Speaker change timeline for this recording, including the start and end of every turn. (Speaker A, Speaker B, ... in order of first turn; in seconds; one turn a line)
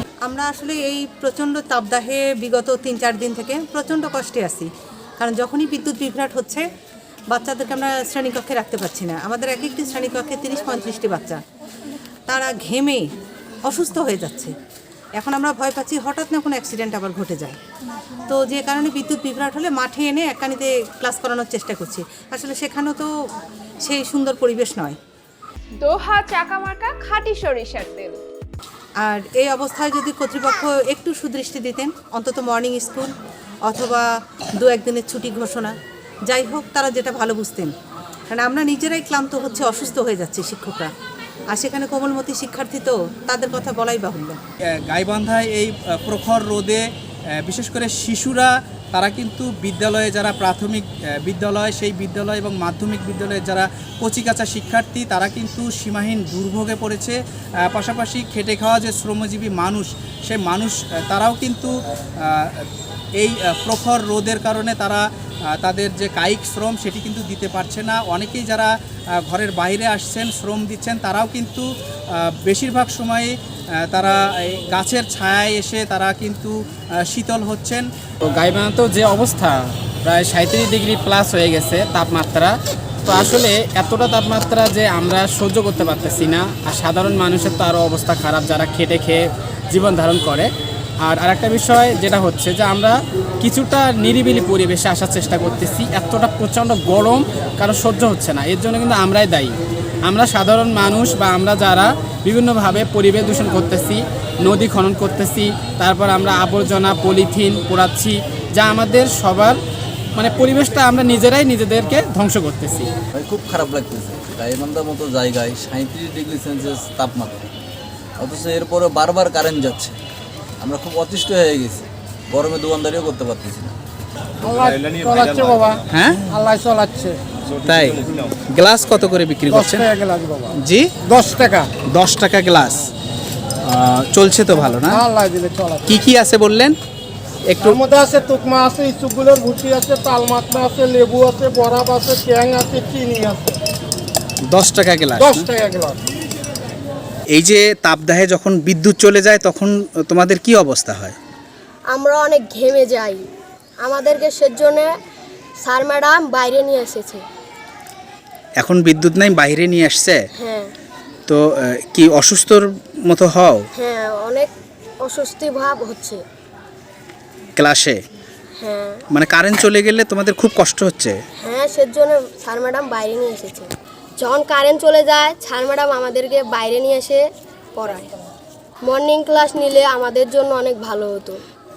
Speaker A: 0.2-6.6
Speaker A: 7.3-11.4
Speaker A: 12.3-13.0
Speaker A: 13.7-14.5
Speaker A: 15.2-17.6
Speaker A: 18.3-23.1
Speaker A: 23.8-25.0
Speaker B: 25.8-28.2
Speaker A: 29.0-33.1
Speaker A: 33.6-35.7
Speaker A: 36.3-37.7
Speaker A: 38.3-40.9
Speaker A: 41.5-44.4
Speaker C: 44.9-46.8
Speaker C: 47.4-62.6
Speaker C: 63.2-76.6
Speaker C: 77.1-77.9
Speaker D: 78.3-82.5
Speaker D: 83.0-90.5
Speaker D: 91.0-109.6
Speaker D: 110.2-112.9
Speaker E: 113.1-117.5
Speaker E: 118.2-120.0
Speaker E: 120.6-123.8
Speaker F: 124.4-127.2
Speaker C: 125.9-126.2
Speaker C: 127.7-128.0
Speaker C: 128.5-129.9
Speaker F: 129.5-130.5
Speaker C: 130.6-130.9
Speaker F: 131.0-131.7
Speaker C: 131.9-132.9
Speaker C: 133.7-135.0
Speaker F: 134.8-135.9
Speaker C: 135.9-136.8
Speaker C: 137.5-137.8
Speaker F: 137.6-143.6
Speaker C: 144.5-145.5
Speaker F: 145.2-146.0
Speaker C: 147.3-151.2
Speaker G: 151.9-153.2
Speaker G: 153.8-154.9
Speaker G: 155.6-157.2
Speaker C: 158.6-160.2
Speaker G: 160.4-160.7
Speaker C: 161.3-163.7
Speaker G: 163.8-164.5
Speaker G: 165.0-166.2
Speaker C: 167.6-168.0
Speaker G: 168.6-169.0
Speaker C: 169.1-171.2
Speaker G: 171.4-177.2
Speaker G: 177.8-178.1
Speaker G: 178.8-181.4